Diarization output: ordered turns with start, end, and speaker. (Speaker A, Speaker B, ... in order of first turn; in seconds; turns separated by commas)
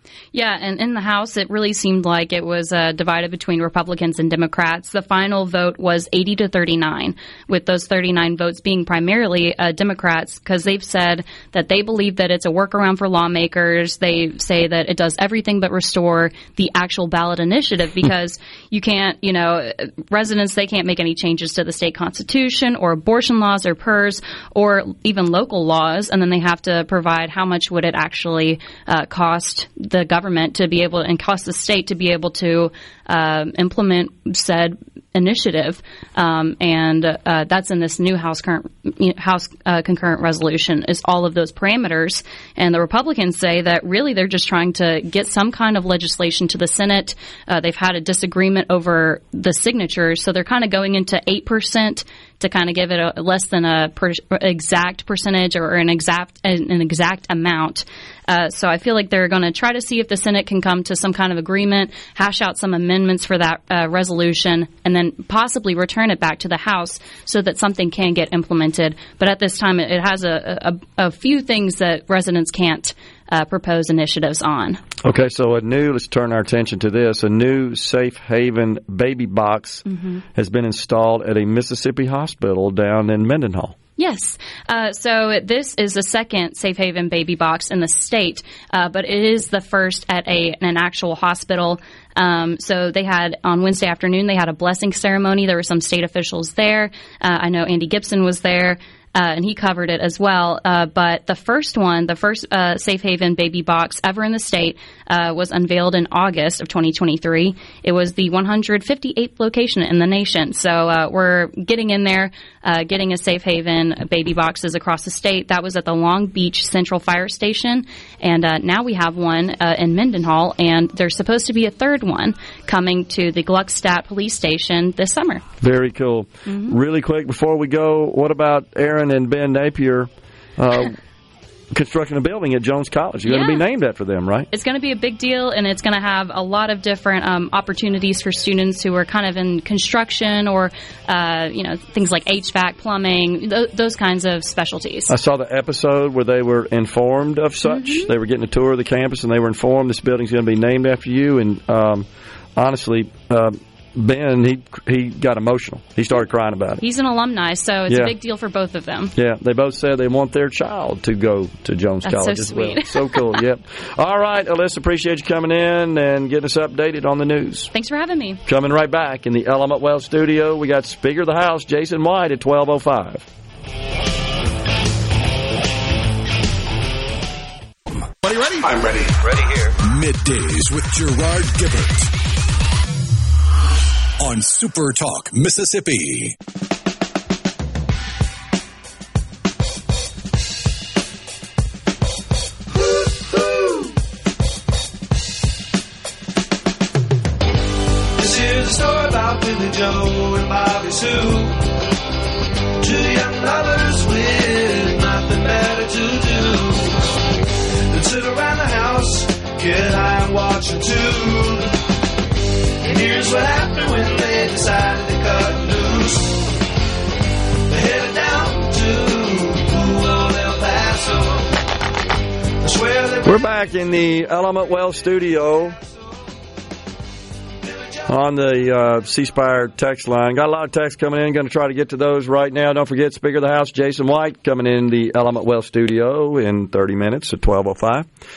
Speaker A: 0.3-74.8, Speaker B: 75.0-83.8, Speaker A: 79.9-80.2, Speaker A: 84.0-125.4, Speaker B: 125.6-131.0, Speaker A: 126.5-126.8, Speaker B: 131.7-134.5, Speaker A: 133.2-133.7, Speaker A: 134.5-145.1, Speaker B: 145.1-156.8, Speaker A: 147.6-148.1, Speaker A: 156.8-159.1, Speaker B: 157.9-158.1, Speaker B: 159.1-167.7, Speaker A: 162.0-163.4, Speaker A: 167.7-168.4, Speaker B: 168.4-173.2, Speaker C: 179.8-182.1, Speaker C: 184.2-186.4, Speaker D: 193.5-193.8, Speaker D: 198.2-201.6, Speaker D: 202.8-206.9, Speaker D: 207.9-211.7, Speaker D: 212.8-216.3, Speaker D: 217.7-221.4, Speaker D: 222.6-223.3, Speaker B: 223.2-225.8, Speaker B: 228.1-238.1